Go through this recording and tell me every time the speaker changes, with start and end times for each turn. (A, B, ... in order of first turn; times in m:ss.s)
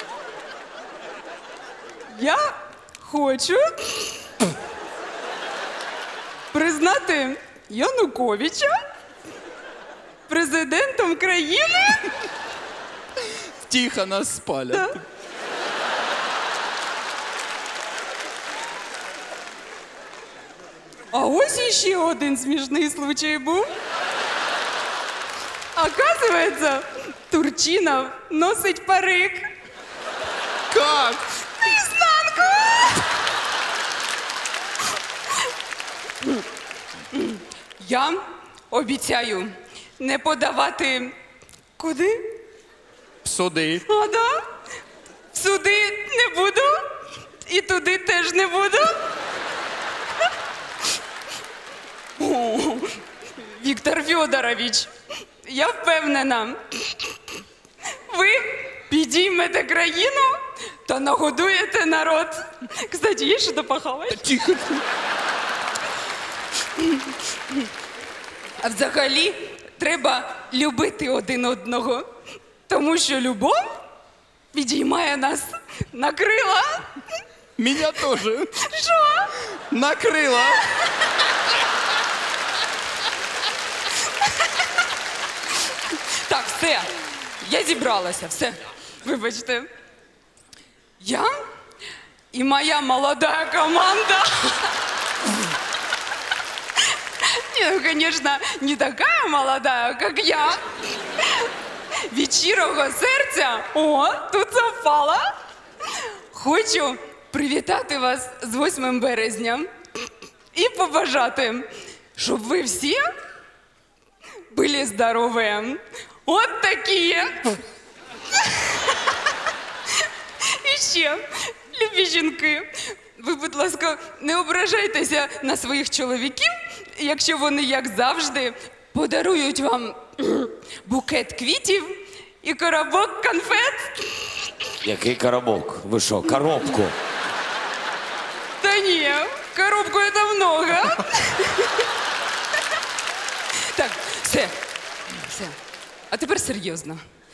0:02.1-0:04.4 A
0:06.5-0:08.8 A
0:10.3-0:12.2 A
0:13.5-0:15.0 B
0:14.7-0:15.0 A
0:21.1-0:23.7 A
0:25.8-0:29.5 A
0:30.7-0:31.2 B
0:31.6-0:33.0 A
0:37.1-0:41.2 A
0:41.8-0:42.3 A
0:43.2-0:43.8 B
0:43.9-0:44.5 A
0:45.3-0:49.0 A
0:52.2-0:54.9 A
0:55.4-0:57.4 A
0:57.9-1:04.5 A
1:04.3-1:04.8 B
1:06.8-1:07.7 A
1:08.6-1:12.1 A
1:12.7-1:13.9 A
1:14.5-1:17.0 A
1:17.6-1:18.5 B
1:18.6-1:19.4 A
1:19.6-1:20.7 B
1:24.2-1:24.5 A
1:25.7-1:29.7 A
1:31.0-1:31.4 A
1:32.3-1:34.7 A
1:36.8-1:41.5 A
1:42.0-1:49.7 A
1:50.5-1:53.1 A
1:54.5-1:57.6 A
1:58.4-1:59.2 A
1:59.9-2:14.7 A
2:14.8-2:17.0 C
2:18.6-2:21.9 A
2:23.6-2:24.6 A
2:25.1-2:25.6 A
2:26.1-2:27.0 A